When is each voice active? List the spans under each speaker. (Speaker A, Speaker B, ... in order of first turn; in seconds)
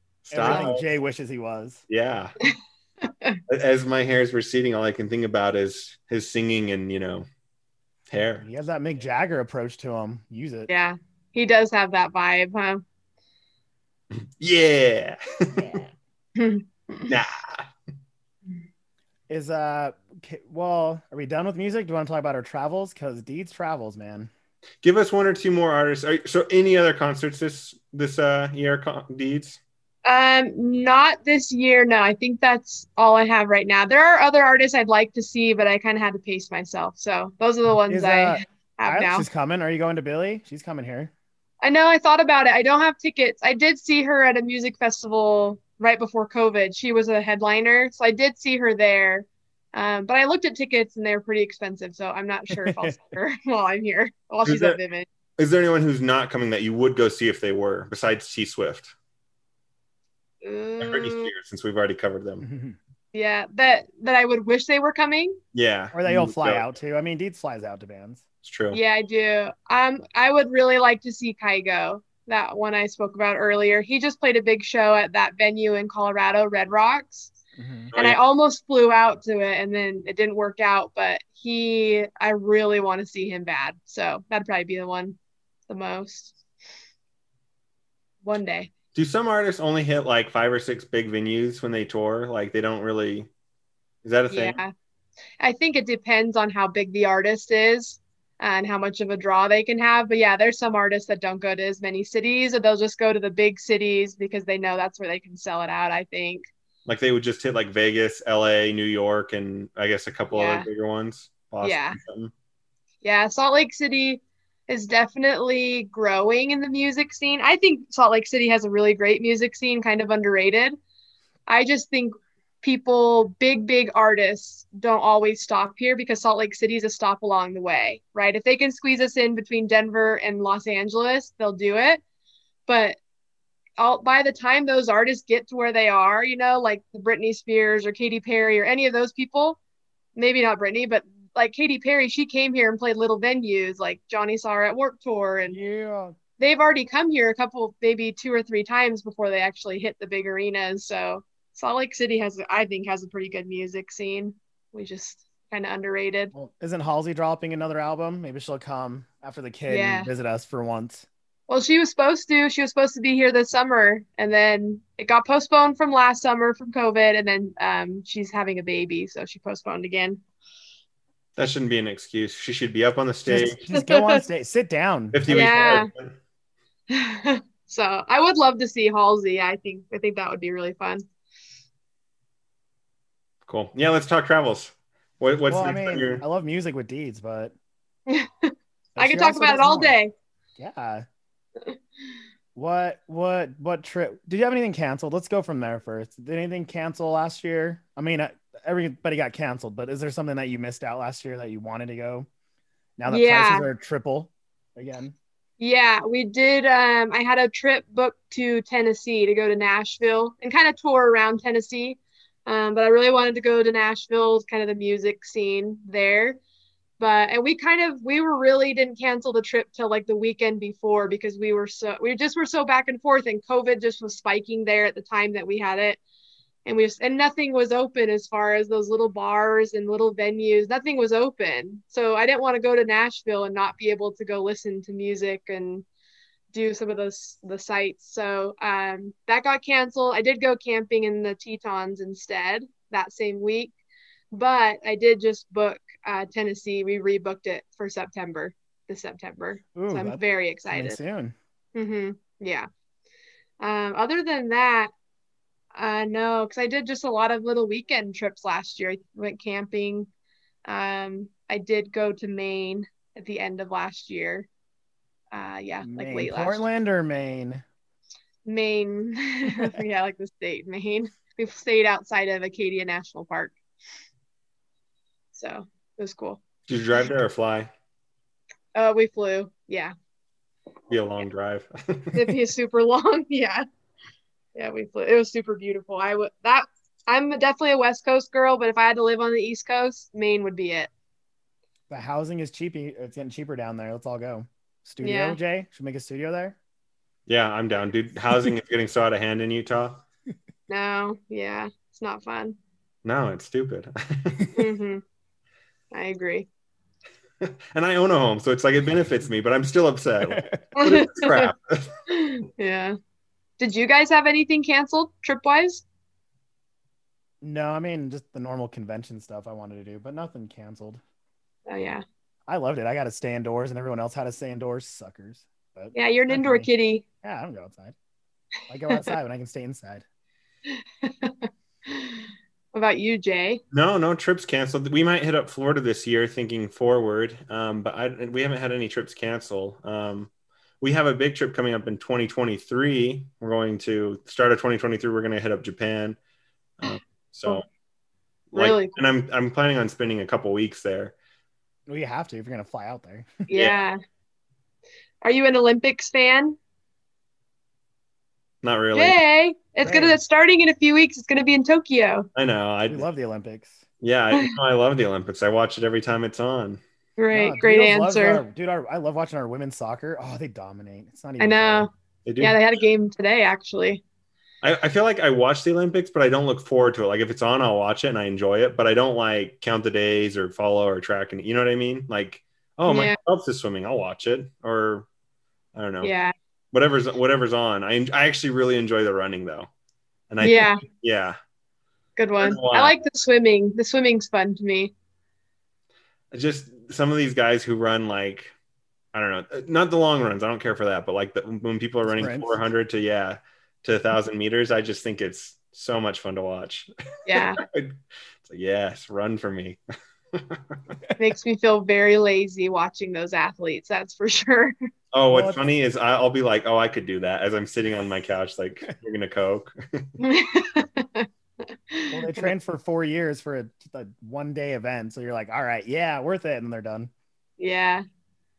Speaker A: 0.2-0.8, 1.9-2.3, 3.5-7.3, 8.1-8.4, 14.1-15.8, 17.1-17.6, 24.8-29.6, 54.4-54.8, 55.4-58.9, 60.8-62.4, 65.5-66.7, 68.4-68.8, 77.9-78.2, 88.9-93.3, 94.0-94.6, 106.8-112.3, 171.4-173.6, 175.1-176.2, 183.5-186.2, 276.7-277.7, 280.9-282.3, 297.3-300.0, 303.0-304.6, 307.4-311.9, 333.7-340.3, 340.8-346.2, 346.8-347.6, 348.5-351.1, 358.6-359.2, 362.3-363.1, 364.0-366.8, 372.2-372.6, 374.6-385.1, 385.7-386.1, 386.7-389.7, 390.3-391.4, 392.4-392.9, 396.3-398.5, 399.1-409.8, 410.3-410.8, 415.1-420.1
Speaker B: 0.3-1.8, 8.4-10.7, 19.3-24.3, 37.9-41.1, 52.5-53.0, 62.4-62.8, 65.9-68.2, 77.6-77.9, 145.5-146.2, 156.3-161.1, 173.2-175.8, 185.5-187.5, 188.9-190.0, 190.6-191.0, 192.6-202.3, 203.0-205.1, 249.7-251.3, 265.8-267.6, 291.9-296.6, 310.3-310.6, 317.4-321.0, 322.5-326.7, 327.2-327.9, 328.7-330.0, 351.9-353.4, 359.8-360.2, 362.9-363.8, 367.3-371.9, 402.1-402.5, 415.3-415.6, 422.1-427.1
Speaker C: 2.4-3.4, 10.7-12.8, 16.4-17.1, 30.0-39.3, 41.6-55.0, 60.4-61.3, 63.1-65.4, 68.7-77.3, 78.0-85.2, 85.7-86.3, 88.2-88.7, 94.3-94.7, 95.4-106.5, 110.3-110.7, 111.6-112.0, 113.0-120.8, 121.5-132.0, 132.7-133.0, 133.8-139.6, 140.2-145.6, 146.4-156.3, 159.7-160.1, 161.5-170.2, 173.7-174.2, 175.3-175.9, 176.9-181.0, 188.1-190.1, 203.1-203.7, 205.6-216.4, 217.0-226.0, 226.6-235.8, 236.5-243.7, 244.3-251.0, 251.7-252.7, 253.6-254.9, 255.7-260.1, 260.6-264.5, 265.3-266.6, 268.4-273.6, 275.3-276.4, 278.7-279.9, 282.1-283.6, 284.5-290.9, 295.0-295.4, 300.7-302.6, 304.6-305.0, 305.9-306.5, 310.8-311.5, 312.1-313.0, 313.6-315.8, 321.7-322.0, 325.9-327.0, 330.7-332.2, 332.7-333.6, 348.5-349.0, 353.5-354.0, 355.2-356.6, 358.9-362.3, 367.2-368.4, 371.4-374.0, 382.9-383.1, 386.0-386.3, 390.4-390.8, 392.2-394.9, 407.2-407.6, 411.2-414.8, 420.2-421.3, 421.9-422.5, 427.6-428.0